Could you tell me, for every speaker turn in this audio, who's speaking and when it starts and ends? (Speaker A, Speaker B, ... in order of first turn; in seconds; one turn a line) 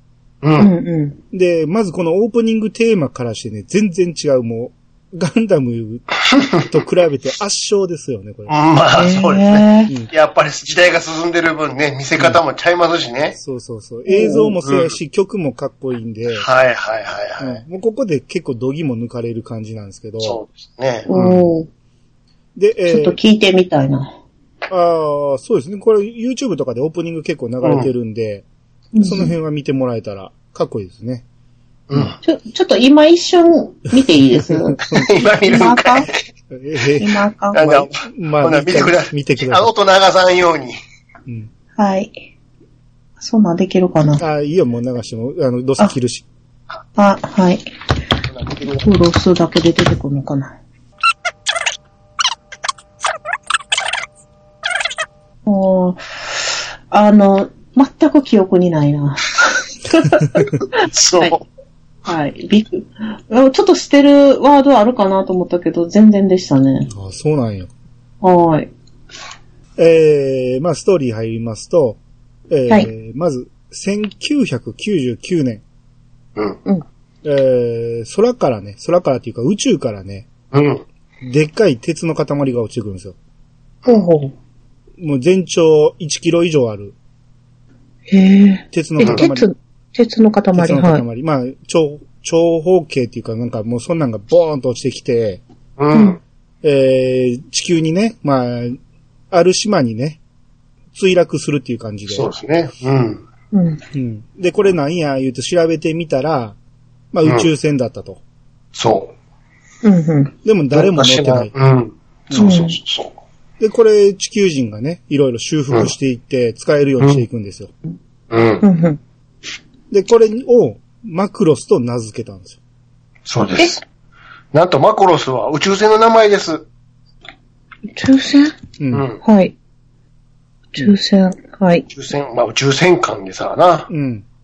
Speaker A: 0.4-0.7
Speaker B: 0.6-1.2
Speaker C: 1.3-6.1
Speaker A: 6.3-6.7
Speaker C: 6.7-8.5
Speaker A: 8.5-13.4
Speaker B: 8.9-9.9
Speaker C: 13.3-16.5
Speaker B: 14.1-14.5
Speaker A: 14.6-14.9
Speaker A: 16.3-17.6
Speaker C: 17.4-20.4
Speaker A: 20.2-21.1
Speaker B: 21.1-21.7
Speaker C: 21.1-21.5
Speaker C: 22.6-23.2
Speaker B: 22.9-24.1
Speaker C: 24.7-28.4
Speaker A: 27.6-27.9
Speaker B: 28.9-29.3
Speaker C: 29.0-31.2
Speaker A: 31.9-32.2
Speaker B: 32.2-36.1
Speaker C: 34.3-35.1
Speaker A: 34.9-36.1
Speaker C: 36.5-39.7
Speaker B: 37.0-37.6
Speaker A: 37.5-40.8
Speaker B: 41.8-42.2
Speaker B: 43.2-44.2
Speaker C: 44.2-46.2
Speaker B: 47.0-47.7
Speaker A: 48.3-48.9
Speaker B: 48.8-50.6
Speaker B: 55.5-61.3
Speaker A: 60.8-61.4
Speaker B: 62.0-66.9
Speaker C: 66.9-67.7
Speaker B: 68.2-68.7
Speaker C: 69.8-75.6
Speaker C: 77.2-80.3
Speaker A: 80.5-80.8
Speaker C: 81.2-83.2
Speaker B: 83.8-84.3
Speaker C: 85.0-86.9
Speaker B: 88.1-91.0
Speaker C: 88.7-89.5
Speaker C: 90.5-95.4
Speaker A: 95.8-96.2
Speaker B: 95.9-96.2
Speaker C: 96.6-98.8
Speaker C: 99.3-100.2
Speaker C: 100.9-102.3
Speaker A: 102.1-103.2
Speaker B: 103.5-103.8
Speaker C: 103.9-106.6
Speaker C: 107.1-108.2
Speaker A: 108.7-109.1
Speaker B: 109.8-110.3
Speaker C: 110.4-111.5
Speaker A: 110.7-113.1
Speaker B: 112.4-112.8
Speaker C: 113.6-117.7
Speaker A: 118.3-118.6
Speaker B: 118.6-119.0
Speaker C: 119.9-122.6
Speaker A: 123.2-123.8
Speaker A: 124.5-126.7
Speaker B: 127.9-128.6
Speaker C: 128.8-129.1
Speaker A: 128.9-129.2
Speaker B: 129.2-129.5
Speaker B: 130.7-131.8
Speaker A: 131.9-133.9
Speaker C: 133.9-134.2